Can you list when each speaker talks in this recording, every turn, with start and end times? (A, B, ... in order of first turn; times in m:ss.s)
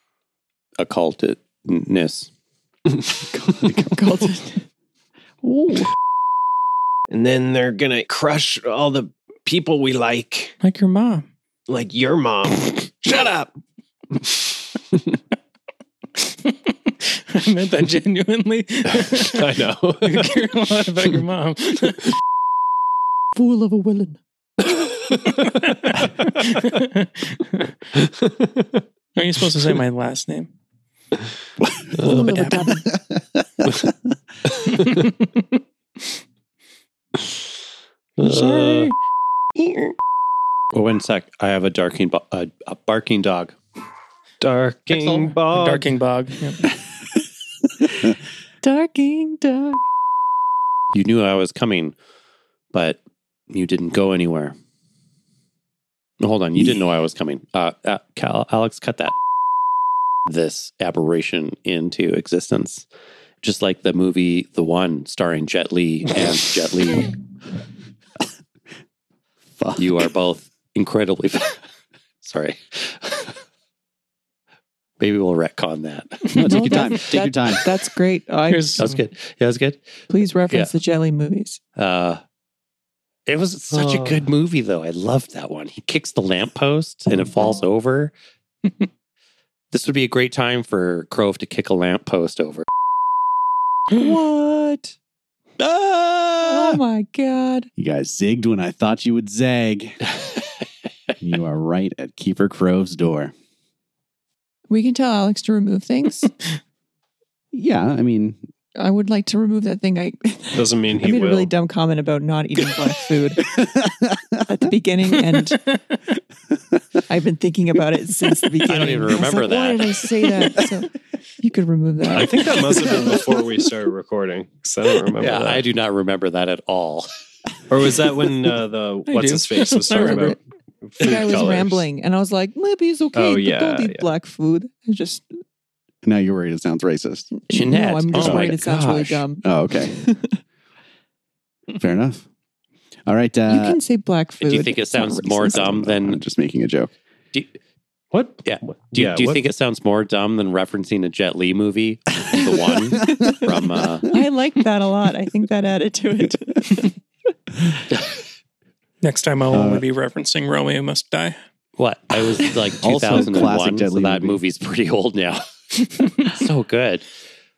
0:00.8-0:02.3 A
0:03.4-0:03.9 B
0:03.6-0:04.7 C
0:05.4-0:05.9 C
0:07.1-0:10.6 D
0:10.6-0:11.3 E
0:11.7-0:13.5 D
0:14.1-0:15.2 D
0:16.2-0:19.5 E
0:19.1-0:20.5 D
0:20.0-0:22.2 E
0:23.3-0:24.2 C
0:24.6-0:25.4 D
0:25.4-0:27.8 E
0:28.0-0:28.8 D
0:29.2-0:30.5 E
0:32.0-0:32.8 E
0:32.0-0:32.9 C
0:33.1-0:33.9 B
0:34.7-0:36.1 E
0:34.8-0:35.1 D
0:38.2-0:39.0 E
0:38.2-0:38.9 D
0:40.7-0:43.6 A
0:44.4-0:45.9 D
0:44.9-0:45.3 A
0:45.5-0:46.7 E
0:48.6-0:49.8 C
0:50.9-0:51.9 A
0:52.7-0:54.6 A
0:56.2-0:59.2 A
1:00.3-1:02.8 A
1:03.4-1:07.2 A
1:09.6-1:10.1 B
1:09.8-1:11.6 A
1:12.2-1:13.4 A
1:15.0-1:17.0 A
1:16.3-1:17.6 B
1:16.4-1:18.9 C
1:18.5-1:19.0 E
1:18.8-1:20.7 A
1:20.1-1:21.6 C
1:21.8-1:22.2 A
1:23.3-1:28.1 A
1:29.7-1:32.7 A
1:33.9-1:35.0 C
1:35.6-1:36.8 A
1:36.4-1:37.7 C
1:37.8-1:40.1 B
1:41.2-1:43.3 B
1:44.7-1:46.3 C
1:47.5-1:48.4 B
1:48.8-1:53.5 C
1:50.6-1:51.5 D
1:53.5-1:54.4 B
1:54.4-1:55.6 C
1:55.6-1:56.0 E
1:57.1-2:02.6 C
1:58.7-2:00.1 A
2:02.1-2:05.6 D
2:05.2-2:07.1 A
2:07.7-2:11.5 D
2:09.1-2:10.4 E
2:09.9-2:10.4 C
2:11.0-2:15.2 C
2:11.1-2:11.8 A
2:13.2-2:14.1 D
2:16.0-2:17.3 B
2:17.3-2:20.4 C
2:17.5-2:19.2 A
2:18.2-2:20.0 B
2:21.8-2:22.3 B
2:23.1-2:23.8 B
2:23.5-2:25.7 C
2:24.4-2:26.2 A
2:25.5-2:26.9 B
2:28.1-2:29.4 D
2:28.4-2:34.1 A
2:33.1-2:33.5 C
2:34.1-2:36.9 C
2:39.0-2:41.4 E
2:39.5-2:39.8 B
2:41.8-2:47.1 A
2:42.8-2:44.4 B
2:46.0-2:46.3 E